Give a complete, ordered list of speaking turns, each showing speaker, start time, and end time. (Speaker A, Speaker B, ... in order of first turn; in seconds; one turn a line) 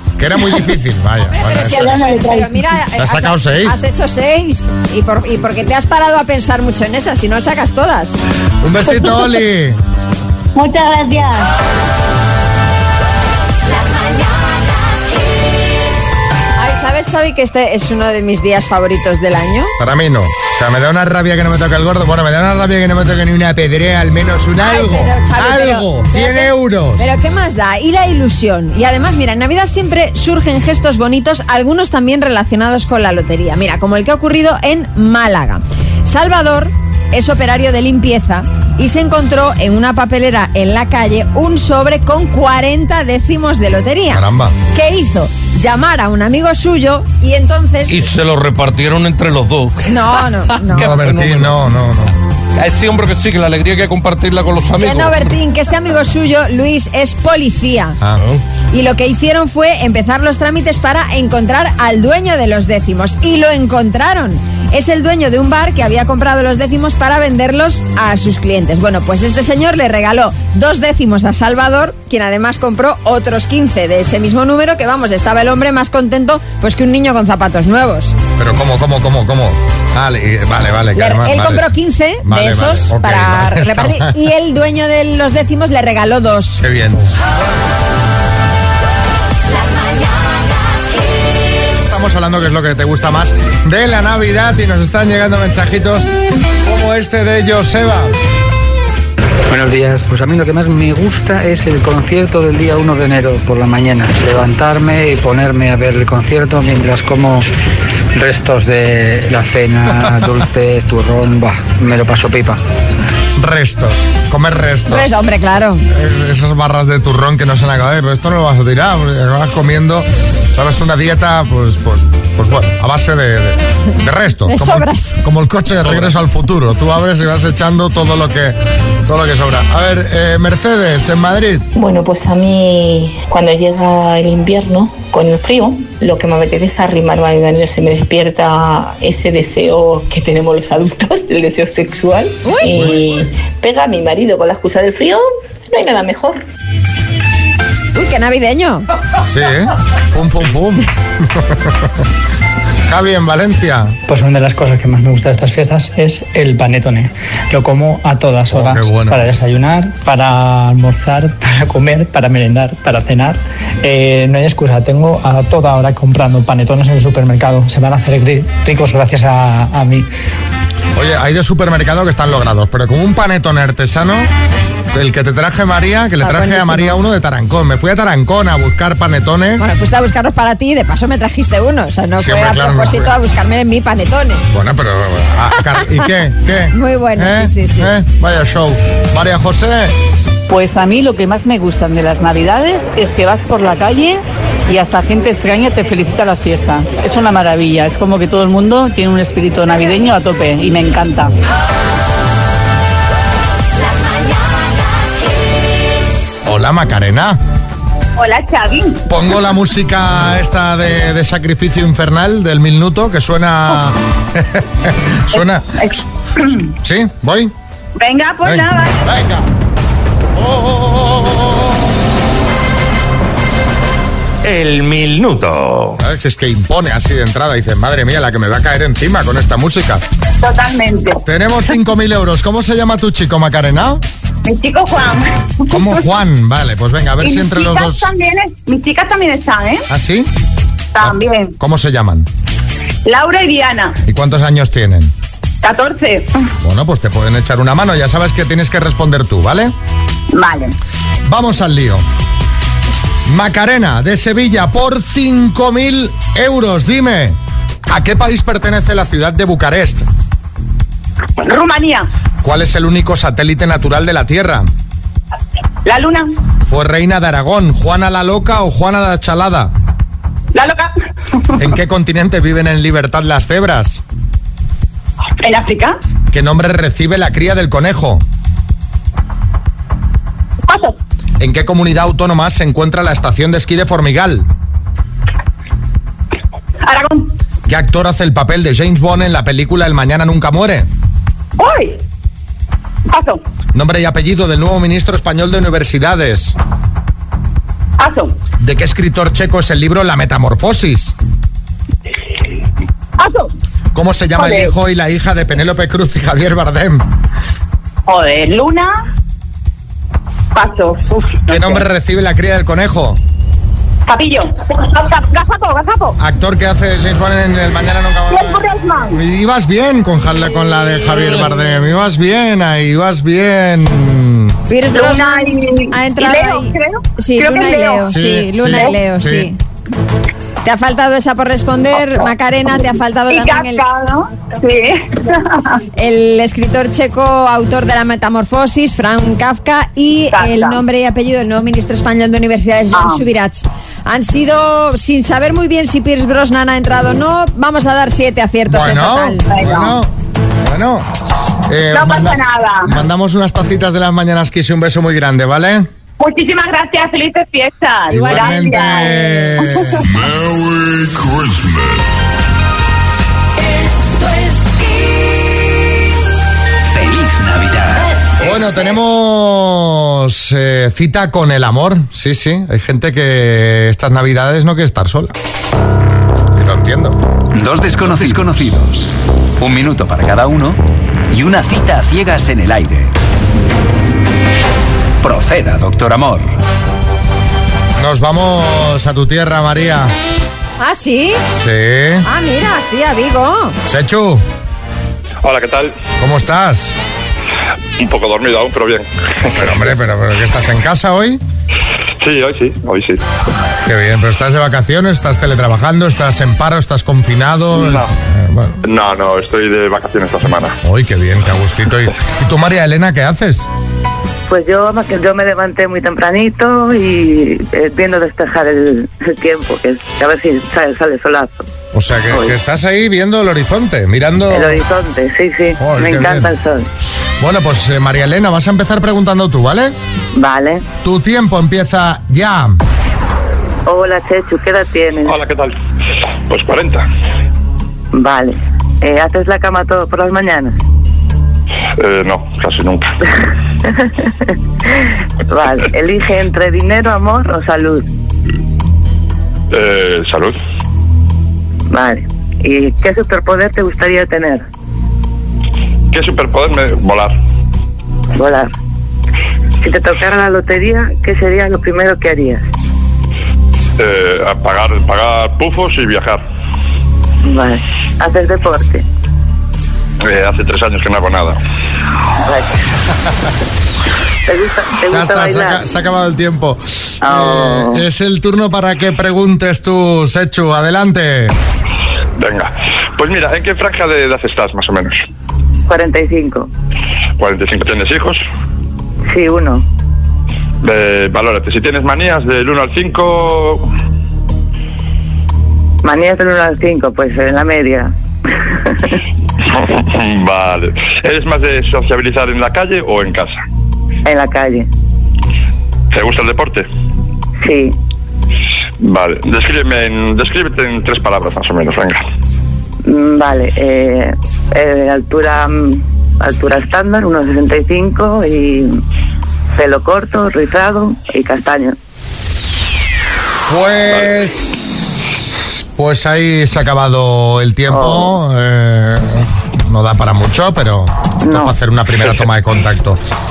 Speaker A: 0.2-2.1
Speaker B: 1.3-8.2
Speaker C: 1.7-2.6
Speaker A: 3.0-3.8
Speaker A: 8.6-9.8
Speaker C: 8.9-9.2
Speaker C: 10.6-11.5
Speaker B: 16.6-19.7
Speaker A: 19.8-27.1
Speaker B: 24.6-48.1
Speaker A: 44.1-44.6
Speaker D: 47.9-51.6
Speaker B: 49.9-51.0
Speaker A: 50.7-52.1
Speaker D: 52.6-55.4
Speaker B: 54.8-58.0
Speaker B: 58.7-78.2
Speaker A: 78.4-84.2
Speaker B: 81.0-86.6
Speaker A: 86.6-87.1
Speaker A: 91.8-96.1
Speaker A: 96.6-98.2
Speaker E: 99.5-107.5
Speaker E: 108.2-112.6
Speaker A: 113.4-115.2
Speaker B: 114.9-115.9
Speaker A: 115.9-131.7
Speaker B: 124.5-125.2
Speaker F: 131.8-146.4
Speaker B: 142.4-142.8
Speaker B: 147.9-148.9
Speaker A: 149.2-151.8
Speaker A: 152.9-154.0
Speaker G: 154.1-170.1
Speaker A: 158.5-159.2
Speaker A: 171.0-174.3
Speaker A: 174.9-179.6
Speaker B: 176.2-177.0
Speaker B: 179.6-184.4
Speaker A: 182.2-183.1
Speaker A: 184.5-189.9
Speaker B: 186.7-187.9
Speaker H: 190.5-201.3
Speaker A: 206.4-207.4
Speaker I: 208.2-209.0
Speaker A: 209.1-215.8
Speaker I: 215.3-216.6
Speaker A: 216.8-217.5
Speaker I: 218.0-219.0
Speaker A: 218.4-219.5
Speaker A: 220.4-221.8
Speaker D: 224.4-226.0
Speaker A: 226.0-230.0
Speaker I: 230.4-231.2
Speaker A: 231.3-234.0
Speaker I: 234.4-236.0
Speaker A: 235.7-238.1
Speaker I: 237.2-239.9
Speaker A: 239.9-240.3
Speaker I: 240.9-241.6
Speaker A: 241.0-242.3
Speaker I: 243.1-244.0
Speaker A: 244.1-245.1
Speaker I: 245.6-246.3
Speaker A: 246.6-249.7
Speaker I: 250.3-250.7
Speaker A: 251.2-252.1
Speaker A: 253.3-260.1
Speaker I: 261.4-262.1
Speaker A: 262.4-264.7
Speaker I: 265.9-266.3
Speaker A: 266.6-269.7
Speaker I: 270.5-270.9
Speaker A: 271.6-274.0
Speaker I: 275.4-276.0
Speaker A: 276.3-278.2
Speaker I: 280.7-281.0
Speaker A: 281.4-284.5
Speaker I: 286.8-287.3
Speaker A: 287.7-290.9
Speaker I: 291.6-292.0
Speaker I: 293.1-293.4
Speaker A: 293.7-296.6
Speaker I: 298.0-298.3
Speaker A: 298.6-301.1
Speaker I: 303.2-303.5
Speaker A: 303.9-307.1
Speaker I: 304.4-304.7
Speaker I: 308.1-308.9
Speaker I: 310.5-311.9
Speaker A: 311.5-313.2
Speaker I: 314.1-316.2
Speaker A: 316.2-324.6
Speaker I: 318.3-319.2
Speaker B: 324.7-329.6
Speaker I: 324.9-328.2
Speaker A: 328.1-329.5
Speaker B: 330.6-333.8
Speaker I: 333.3-335.8
Speaker B: 336.0-349.7
Speaker I: 340.3-340.8
Speaker I: 342.9-343.3
Speaker A: 348.7-350.1
Speaker I: 349.5-349.9
Speaker A: 350.6-351.1
Speaker A: 351.7-355.9
Speaker I: 351.9-353.0
Speaker I: 356.2-360.1
Speaker B: 358.1-359.4
Speaker A: 358.1-360.0
Speaker J: 366.9-368.1
Speaker A: 368.4-375.3
Speaker A: 376.6-377.2
Speaker J: 377.5-383.1
Speaker J: 385.2-386.6
Speaker A: 388.0-390.1
Speaker B: 390.8-391.4
Speaker A: 391.6-392.3
Speaker B: 392.2-393.8
Speaker A: 393.9-394.4
Speaker K: 395.4-395.9
Speaker A: 396.2-396.9
Speaker K: 398.0-399.8
Speaker A: 399.5-401.4
Speaker K: 402.2-403.2
Speaker A: 403.9-408.8
Speaker K: 407.8-408.1
Speaker K: 408.9-410.8
Speaker A: 410.8-413.7
Speaker L: 414.5-421.7
Speaker A: 421.9-424.8
Speaker L: 424.5-426.9
Speaker A: 425.8-426.5
Speaker A: 427.4-429.9
Speaker L: 430.4-430.9
Speaker A: 431.0-432.8
Speaker L: 433.9-435.4
Speaker K: 435.3-435.7
Speaker K: 436.5-437.1
Speaker L: 438.1-440.8
Speaker K: 442.0-443.1
Speaker L: 445.5-448.1
Speaker K: 449.7-450.6
Speaker L: 451.9-454.6
Speaker K: 456.1-457.3
Speaker L: 458.4-458.7
Speaker L: 459.8-462.6
Speaker K: 464.0-466.4
Speaker L: 467.4-469.0
Speaker K: 470.2-471.6
Speaker L: 472.4-472.7
Speaker L: 474.5-475.8
Speaker A: 475.1-481.6
Speaker L: 477.2-478.0
Speaker K: 482.4-485.2
Speaker L: 485.9-486.7
Speaker K: 487.4-488.4
Speaker L: 489.3-489.9
Speaker K: 490.8-493.9
Speaker L: 496.0-498.1
Speaker K: 499.7-503.6
Speaker L: 504.2-504.9
Speaker K: 506.1-506.9
Speaker L: 507.6-508.0
Speaker K: 509.0-512.2
Speaker L: 513.0-518.9
Speaker L: 519.8-522.0
Speaker A: 523.7-533.2
Speaker L: 527.9-528.4
Speaker L: 531.4-531.8